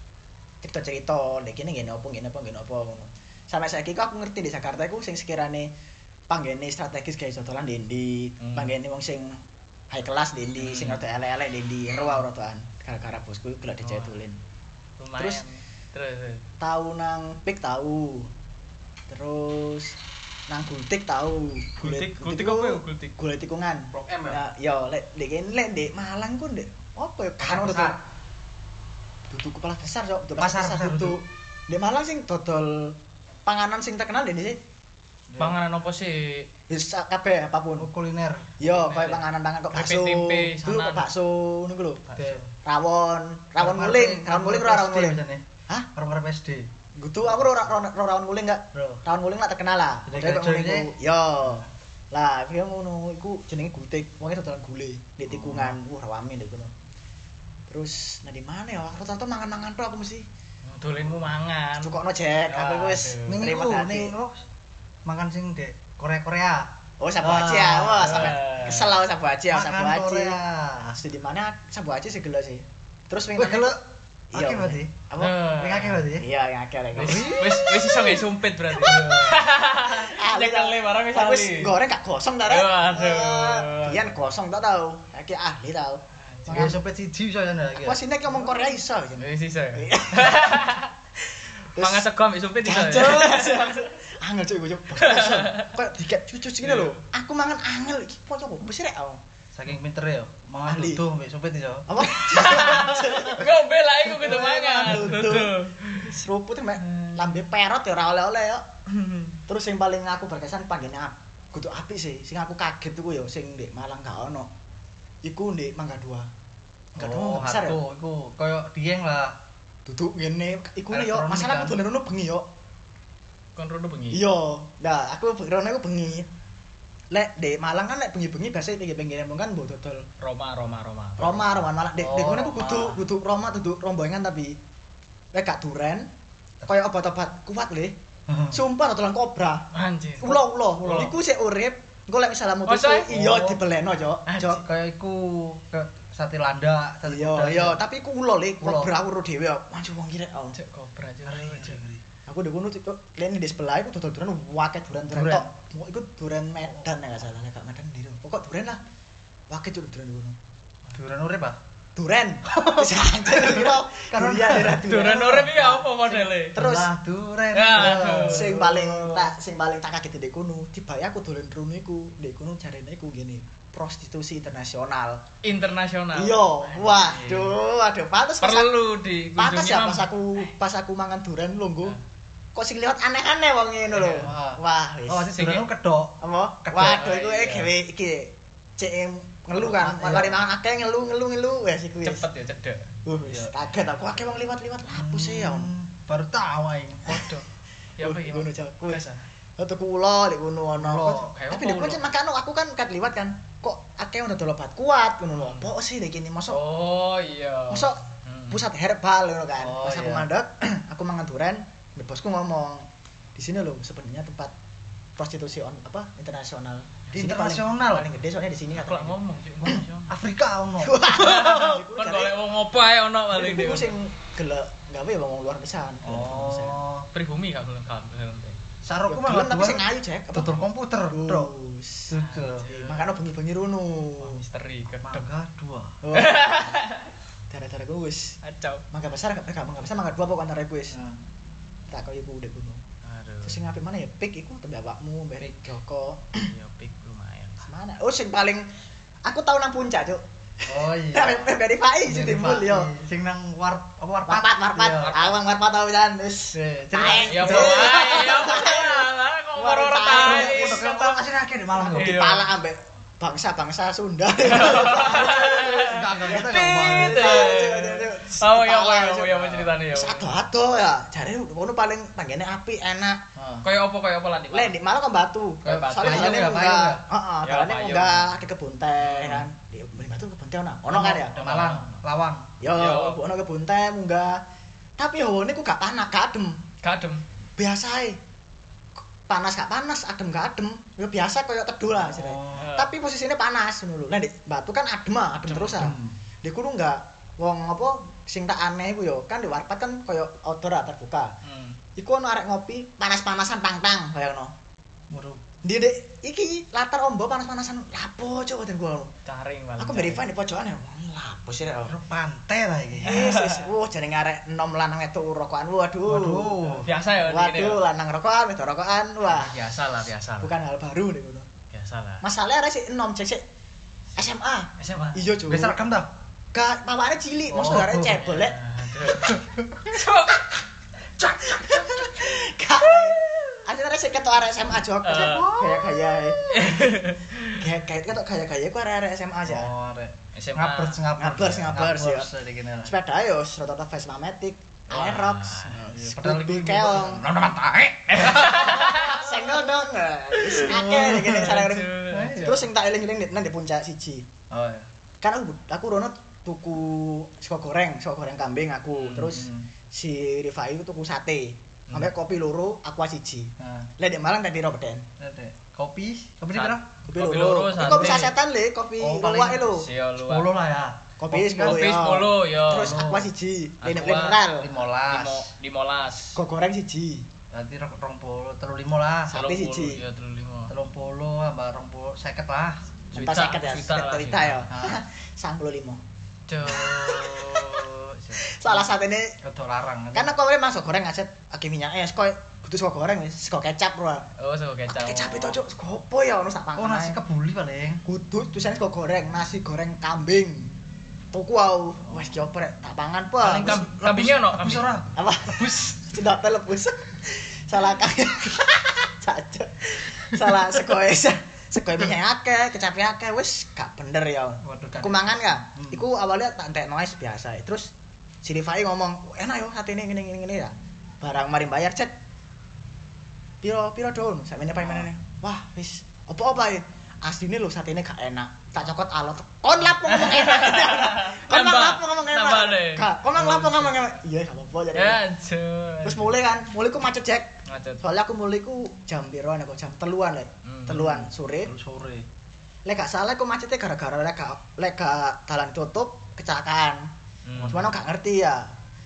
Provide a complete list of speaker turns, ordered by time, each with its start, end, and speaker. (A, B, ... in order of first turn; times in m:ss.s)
0:00.6-0:05.7 A
0:06.3-0:14.4 A
0:08.4-0:08.7 B
0:10.6-0:11.0 B
0:11.9-0:12.2 B
0:13.8-0:14.2 B
0:15.0-0:16.4 B
0:15.2-0:15.4 A
0:16.6-0:18.3 A
0:19.1-0:20.0 A
0:20.5-0:28.0 A
0:21.8-0:23.2 B
0:23.9-0:24.4 C
0:27.4-0:28.0 C
0:29.3-0:34.6 A
0:30.4-0:31.2 C
0:35.3-0:35.6 C
0:35.4-0:36.5 B
0:36.7-0:37.9 A
0:37.8-0:38.6 C
0:38.6-0:42.0 A
0:38.6-0:41.1 B
0:42.1-0:42.4 B
0:42.1-0:42.5 C
0:42.6-0:45.9 A
0:43.6-0:46.7 C
0:47.0-0:56.7 A
0:48.7-0:49.0 C
0:50.1-0:50.9 C
0:55.3-0:55.8 C
0:57.7-1:00.2 A
1:00.6-1:02.0 B
1:01.8-1:04.1 A
1:02.5-1:03.5 B
1:03.3-1:04.4 C
1:05.0-1:08.4 C
1:07.0-1:10.4 A
1:08.0-1:08.9 B
1:09.5-1:11.0 C
1:10.9-1:13.8 A
1:13.4-1:13.8 C
1:14.3-1:15.4 A
1:14.3-1:15.0 C
1:15.2-1:16.1 B
1:15.5-1:16.2 C
1:16.2-1:17.6 A
1:17.0-1:18.2 C
1:17.0-1:21.7 B
1:18.7-1:19.4 C
1:19.8-1:26.8 A
1:22.5-1:24.1 B
1:26.3-1:26.7 B
1:26.5-1:28.0 C
1:27.8-1:30.7 A
1:29.2-1:30.9 B
1:31.7-1:32.0 A
1:31.8-1:33.9 B
1:32.6-1:39.2 A
1:35.0-1:35.7 B
1:36.6-1:37.0 B
1:39.5-1:41.9 C
1:40.7-1:41.0 A
1:41.9-1:43.5 A
1:42.1-1:46.2 B
1:44.2-1:54.5 A
1:44.2-1:45.3 C
1:46.8-1:47.4 B
1:55.2-1:56.3 A
1:57.0-1:57.8 A
1:57.0-1:59.4 C
1:59.8-2:02.5 A
2:00.9-2:01.8 C
2:03.6-2:04.2 B
2:04.1-2:06.3 A
2:07.1-2:10.1 A
2:10.2-2:11.6 B
2:11.2-2:14.6 A
2:12.0-2:13.0 C
2:15.3-2:16.1 A
2:16.7-2:18.0 A
2:18.3-2:18.6 C
2:18.5-2:19.7 A
2:19.7-2:21.1 B
2:20.2-2:24.6 A
2:22.7-2:23.1 B
2:23.1-2:23.6 C
2:24.3-2:24.6 B
2:24.6-2:27.8 C
2:27.0-2:30.6 A
2:28.6-2:28.9 C
2:30.5-2:31.8 B
2:31.2-2:32.0 C
2:32.2-2:38.8 A
2:35.1-2:35.5 C
2:39.5-2:40.4 A
2:40.9-2:41.6 C
2:42.0-2:46.9 A
2:42.5-2:44.9 C
2:44.5-2:46.6 B
2:46.5-2:49.3 C
2:47.5-2:48.6 B
2:47.8-2:55.2 A
2:55.4-2:57.6 B
2:56.1-2:58.7 A
2:58.4-3:00.1 B
2:59.4-3:02.0 A
3:02.5-3:05.3 A
3:03.9-3:04.3 B
3:04.2-3:07.1 C
3:05.3-3:05.7 B
3:06.2-3:12.3 A
3:06.8-3:07.7 B
3:09.6-3:10.4 C
3:12.0-3:12.9 B
3:13.0-3:15.7 A
3:13.2-3:13.6 C
3:14.9-3:17.3 C
3:17.0-3:17.4 B
3:18.0-3:19.2 B
3:18.0-3:19.0 A
3:19.6-3:26.6 A
3:20.8-3:21.3 C
3:21.2-3:22.0 B
3:25.4-3:25.7 B
3:26.5-3:28.6 B
3:27.7-3:34.5 A
3:29.6-3:30.3 C
3:35.2-3:39.2 A
3:37.1-3:38.1 C
3:38.7-3:40.1 B
3:39.7-3:41.6 C
3:40.8-3:42.4 A
3:41.1-3:44.0 B
3:43.3-3:46.8 A
3:46.0-3:47.1 C
3:47.1-3:48.6 B
3:48.8-3:51.5 C
3:49.1-3:52.2 A
3:52.1-3:52.7 C
3:52.2-3:53.2 B
3:52.7-3:54.4 A
3:54.2-3:55.3 B
3:55.0-3:56.0 C
3:56.0-3:56.8 A
3:56.1-3:57.1 B
3:57.5-3:58.4 A
3:58.4-3:58.8 B
3:58.9-4:01.0 A
4:00.9-4:01.2 C
4:01.9-4:02.8 A
4:03.0-4:03.6 B
4:03.4-4:06.5 A
4:06.4-4:07.7 B
4:07.6-4:08.7 A
4:09.2-4:10.2 A
4:10.7-4:15.2 C
4:11.1-4:12.9 A
4:14.2-4:21.2 A
4:15.0-4:15.4 B
4:16.5-4:18.3 C
4:17.0-4:20.9 B
4:20.1-4:22.2 C
4:21.8-4:33.2 A
4:21.9-4:22.5 B
4:24.4-4:30.4 B
4:25.6-4:27.5 C
4:33.4-4:33.6 C
4:33.6-4:34.8 B
4:34.5-4:41.4 A
4:35.6-4:36.5 B
4:35.7-4:37.0 C
4:37.4-4:38.3 B
4:39.0-4:39.4 B
4:40.9-4:42.5 C
4:41.3-4:42.0 B
4:42.6-4:44.4 A
4:42.7-4:43.2 B
4:45.0-4:46.6 A
4:46.8-4:47.2 B
4:47.6-4:48.2 A
4:49.3-5:01.3 A
4:52.0-4:52.7 C
4:52.6-4:52.9 B
4:55.5-4:55.8 B
4:55.8-4:56.2 C
5:01.4-5:01.8 B
5:02.0-5:04.5 A
5:05.1-5:05.4 C
5:05.6-5:09.1 A
5:09.2-5:10.2 B
5:09.8-5:12.0 A
5:11.8-5:13.3 C
5:13.0-5:19.6 A
5:13.0-5:13.7 B
5:16.0-5:16.9 C
5:16.8-5:17.8 B
5:19.2-5:20.5 B
5:20.4-5:21.5 A
5:21.7-5:22.2 B
5:22.2-5:23.4 A
5:24.2-5:25.8 A
5:24.8-5:25.3 B
5:25.5-5:26.1 C
5:26.5-5:28.6 A
5:27.5-5:28.2 C
5:28.2-5:30.6 B
5:29.1-5:29.9 C
5:31.2-5:32.1 C
5:31.3-5:37.0 A
5:35.0-5:35.5 B
5:35.1-5:36.4 C
5:36.5-5:37.6 B
5:37.5-5:39.7 A
5:39.5-5:42.9 C
5:40.3-5:41.0 B
5:41.2-5:42.3 A
5:42.8-5:47.2 A
5:44.9-5:45.8 B
5:45.8-5:48.9 C
5:48.2-5:49.4 B
5:48.2-5:54.3 A
5:50.4-5:52.4 B
5:50.6-5:52.7 C
5:54.5-5:54.9 C
5:55.2-6:05.1 A
5:59.0-5:59.3 B
5:59.2-5:59.7 C
6:03.6-6:03.9 C
6:05.2-6:06.8 C
6:06.5-6:08.3 B
6:07.0-6:09.9 A
6:07.8-6:08.3 C
6:09.0-6:12.0 C
6:09.6-6:10.5 B
6:11.2-6:14.7 A
6:11.6-6:13.0 B
6:12.7-6:13.3 C
6:13.8-6:14.4 B
6:14.6-6:15.5 C
6:15.0-6:16.4 B
6:16.3-6:17.2 A
6:17.5-6:19.4 C
6:19.3-6:20.0 A
6:19.3-6:20.7 B
6:20.7-6:22.8 C
6:23.1-6:26.0 A
6:23.2-6:24.6 B
6:24.7-6:25.0 C
6:26.5-6:28.8 B
6:26.7-6:27.8 A
6:28.4-6:29.4 A
6:29.4-6:30.3 C
6:30.1-6:34.2 A
6:34.4-6:35.6 B
6:34.9-6:37.2 A
6:36.8-6:38.0 C
6:38.0-6:40.8 A
6:41.3-6:43.9 A
6:43.4-6:44.9 B
6:43.4-6:46.2 C
6:45.2-6:57.9 A
6:54.6-6:56.0 C
6:58.4-7:02.1 A
7:03.6-7:15.2 A
7:10.0-7:14.1 B
7:14.9-7:16.3 B
7:16.0-7:21.7 A
7:17.7-7:18.0 B
7:20.6-7:21.2 B
7:21.6-7:22.2 C
7:22.8-7:27.1 A
7:27.5-7:27.8 B
7:27.6-7:28.7 A